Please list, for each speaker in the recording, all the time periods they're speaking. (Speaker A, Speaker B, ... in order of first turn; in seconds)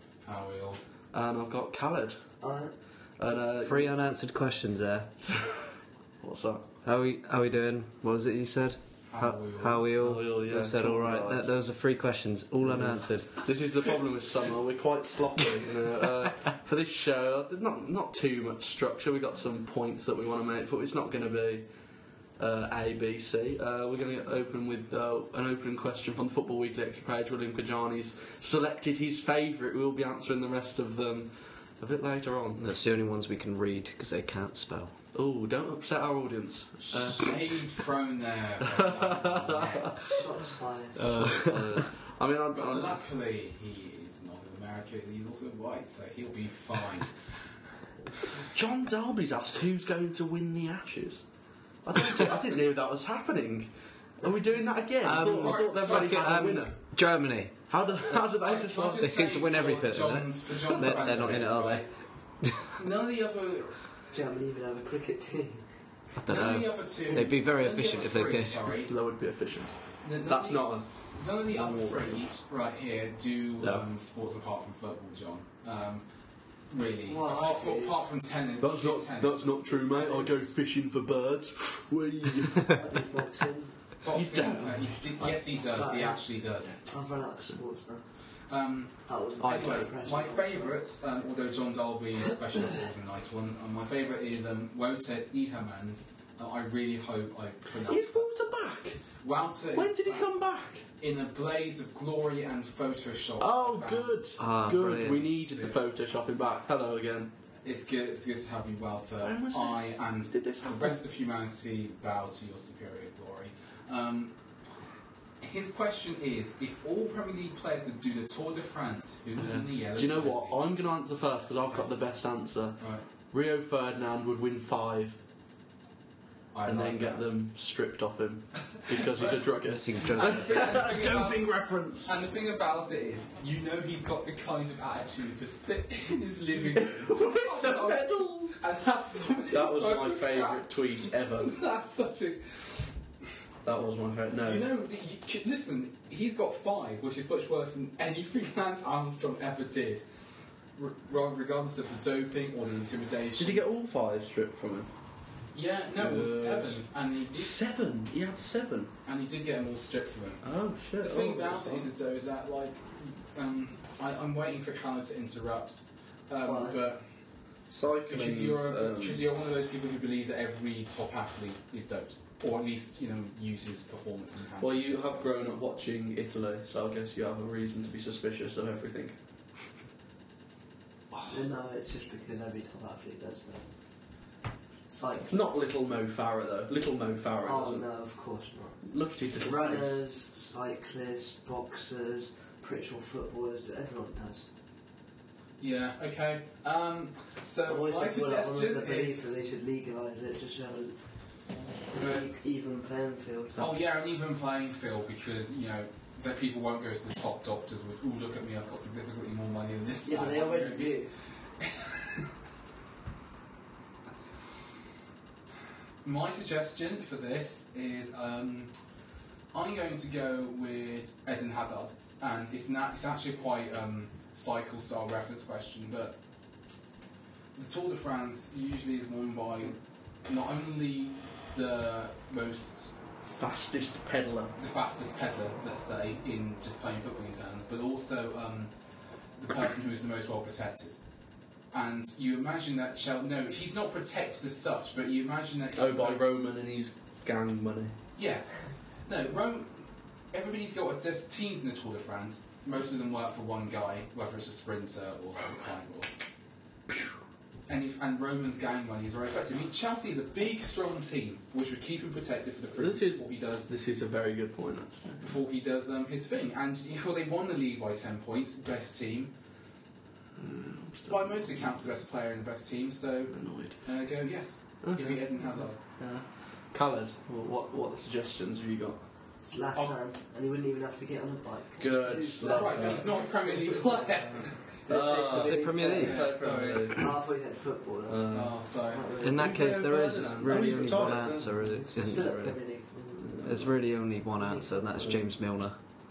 Speaker A: 0.2-0.8, 9.1-9.9, 36.9-40.2, 42.5-47.5, 52.1-52.6, 55.2-56.6, 58.4-61.9, 62.6-63.9, 66.3-68.9, 70.0-76.1, 76.7-80.4, 84.0-86.8, 88.5-98.3, 99.2-100.3, 101.0-104.2, 107.6-114.3, 115.4-120.6, 122.8-123.0, 126.5-127.3, 130.0-140.6, 141.3-143.0, 144.4-150.1, 150.8-153.6, 155.5-157.6, 159.1-167.1, 168.1-175.2, 195.6-199.2, 201.9-202.2, 203.6-212.2, 216.0-218.8, 219.5-226.2, 227.6-233.0, 234.6-238.7, 239.4-241.0, 241.7-246.2, 248.2-256.1, 257.7-263.7, 265.2-269.4, 271.1-275.8, 282.5-284.8, 285.8-287.1, 288.3-289.2
Speaker B: 1.1-2.2, 3.2-4.0, 6.2-6.7, 10.0-11.5, 12.6-21.7, 22.4-32.7, 35.1-37.7, 38.8-40.1, 41.0-43.0, 48.5-51.2, 51.8-56.8, 57.7-59.1, 60.7-61.5, 68.8-70.9, 71.5-72.3, 78.6-83.1, 84.1-85.8, 89.4-89.8, 97.8-99.0, 99.7-100.8, 103.4-107.3, 109.2-111.0, 119.4-125.2, 126.7-132.1, 136.8-138.6, 139.5-141.6, 143.6-144.7, 153.4-154.9, 156.0-158.9, 160.4-161.9, 167.7-169.3, 174.6-179.2, 185.3-187.9, 188.8-190.0, 233.2-234.6, 245.8-248.0, 256.9-257.1, 262.8-265.3, 270.4-271.8, 273.3-273.8, 274.8-279.0, 281.8-283.1, 284.9-287.2, 288.1-288.6, 289.2-291.9, 293.2-293.8, 295.0-295.2
Speaker C: 2.4-2.7, 40.2-41.2, 64.1-65.6, 77.1-78.0, 82.7-83.8, 85.7-88.0, 89.1-90.8, 166.4-166.8, 181.3-183.7, 184.9-185.7, 187.4-188.8, 189.3-194.5, 197.7-201.0, 201.9-203.6, 210.1-211.1, 279.4-286.2, 286.9-289.6, 290.5-293.3, 294.4-294.7
Speaker D: 3.6-5.3, 6.8-13.4, 32.6-35.0, 41.2-41.8, 55.0-57.6, 59.0-61.9, 66.2-68.7, 104.4-105.3, 129.6-130.9, 285.2-286.3, 289.2-292.6, 293.4-295.8